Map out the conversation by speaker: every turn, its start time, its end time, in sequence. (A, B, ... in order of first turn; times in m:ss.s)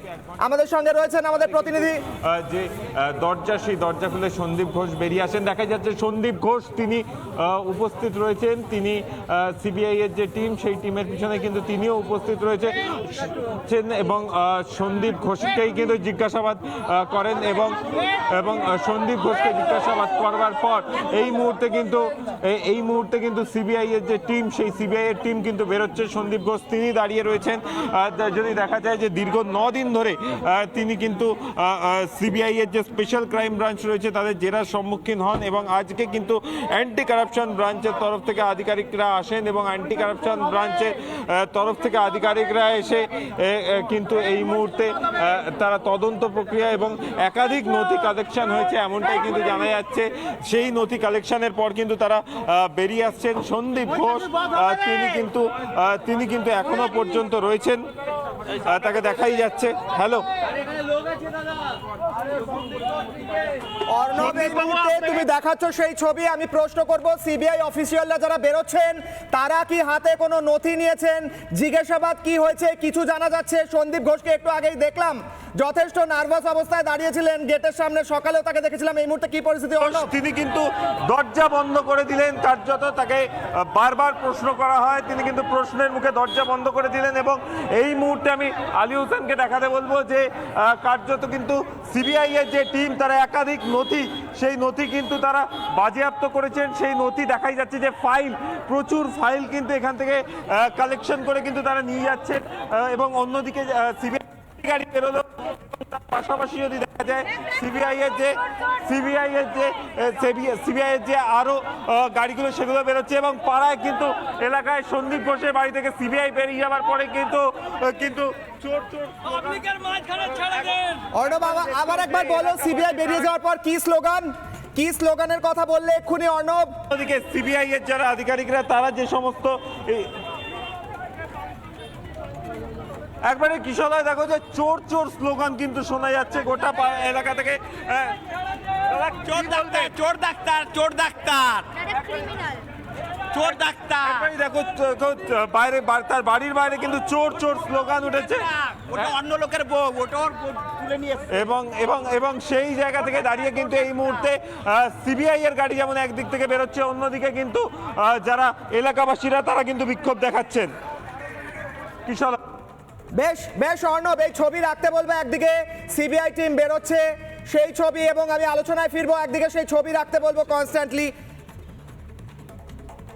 0:00.4-0:02.1 A
0:02.1-0:57.9 B
0:58.5-1:00.2 B
1:03.9-1:20.1 A
1:04.1-1:05.3 B
1:19.8-2:03.3 B
2:01.2-2:06.8 A
2:06.9-2:10.2 B
2:13.2-2:18.2 B
2:18.9-2:20.1 B
2:19.3-2:21.9 C
2:23.3-2:24.3 C
2:23.4-2:28.4 B
2:28.5-2:31.3 C
2:31.3-2:40.7 B
2:42.1-2:42.4 B
2:43.2-2:51.1 A